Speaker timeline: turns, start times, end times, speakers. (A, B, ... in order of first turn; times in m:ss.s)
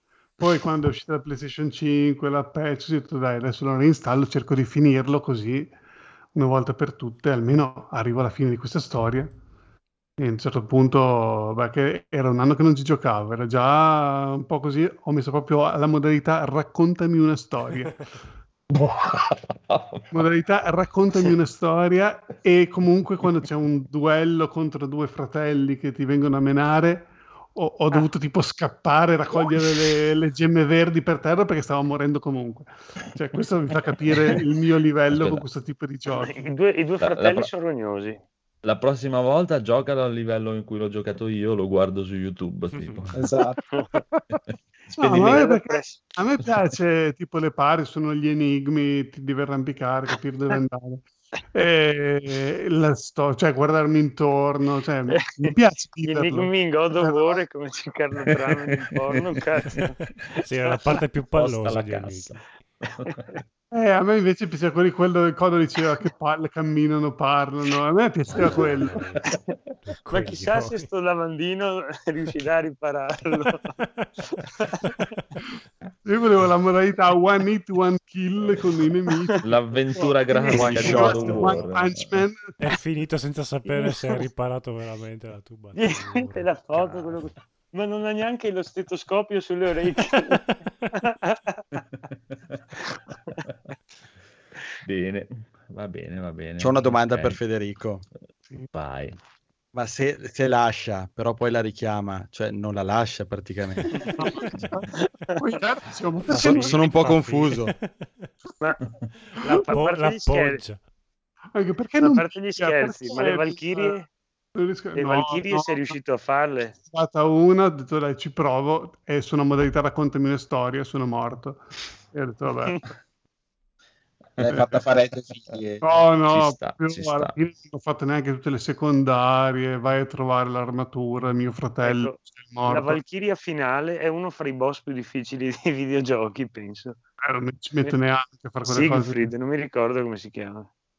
0:00.4-0:05.7 A
0:06.3-0:09.3 A
0:10.2-0:18.0 A
0:18.7-0:20.1 B
0:20.1-0:36.4 A
0:35.1-0:35.4 B
0:36.1-0:38.2 C
0:37.0-0:37.5 B
0:38.6-0:43.2 B
0:43.1-0:43.6 D
0:43.7-0:44.0 C
0:44.9-0:57.4 A
0:45.0-0:45.5 B
0:45.1-0:46.0 C
0:55.1-1:01.0 C
0:59.1-0:59.4 B
1:00.4-1:02.4 E
1:01.3-1:03.2 B
1:03.7-1:09.1 A
1:08.3-1:09.3 E
1:08.3-1:08.7 B
1:09.9-1:10.8 E
1:10.1-1:13.7 C
1:14.6-1:14.9 C
1:16.0-1:19.4 A
1:19.4-1:22.1 B
1:19.9-1:22.5 A
1:20.5-1:21.6 F
1:22.6-1:27.2 E
1:23.7-1:24.2 C
1:25.7-1:31.6 C
1:32.8-1:33.3 C
1:34.8-1:37.4 B
1:36.6-1:38.0 F
1:38.7-1:39.2 B
1:39.7-1:43.9 F
1:43.9-1:45.4 C
1:44.0-1:46.9 A
1:46.3-1:48.3 E
1:46.3-1:47.7 F
1:49.4-1:50.6 C
1:49.5-1:50.8 E
1:51.5-1:53.9 A
1:52.0-1:54.1 C
1:54.5-1:55.9 A
1:54.9-1:56.7 C
1:56.9-2:02.8 A
2:04.4-2:06.0 D
2:05.8-2:13.0 A
2:06.3-2:07.3 B
2:11.8-2:17.0 C
2:17.2-2:19.3 A
2:18.6-2:20.7 C